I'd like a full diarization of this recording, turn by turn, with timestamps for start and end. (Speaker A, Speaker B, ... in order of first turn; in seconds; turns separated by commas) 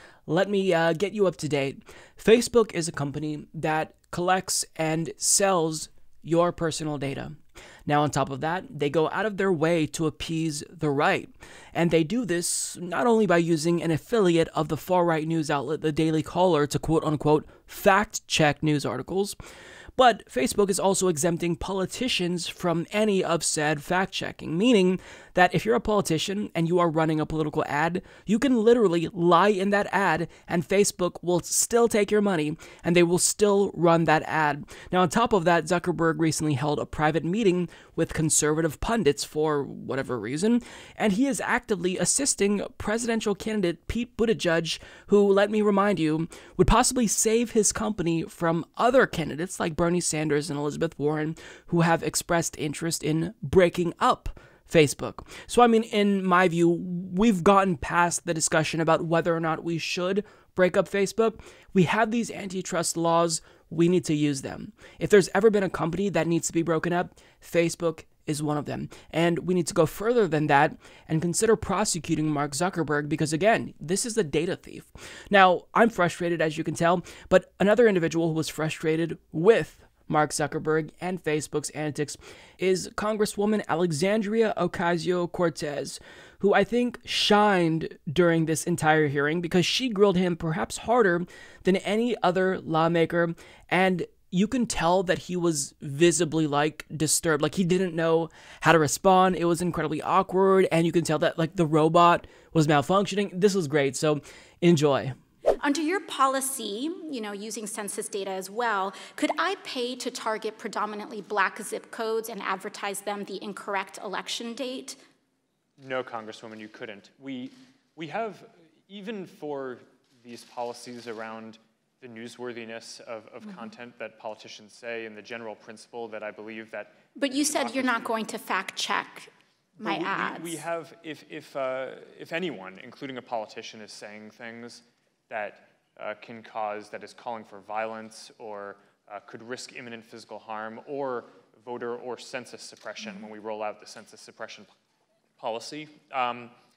Speaker A: 0.3-7.4, Speaker A: 7.9-19.4, Speaker A: 20.0-105.2, Speaker B: 105.6-115.0, Speaker C: 115.8-128.1, Speaker B: 127.2-129.3, Speaker C: 129.8-144.7, Speaker B: 129.8-130.6, Speaker C: 145.4-146.5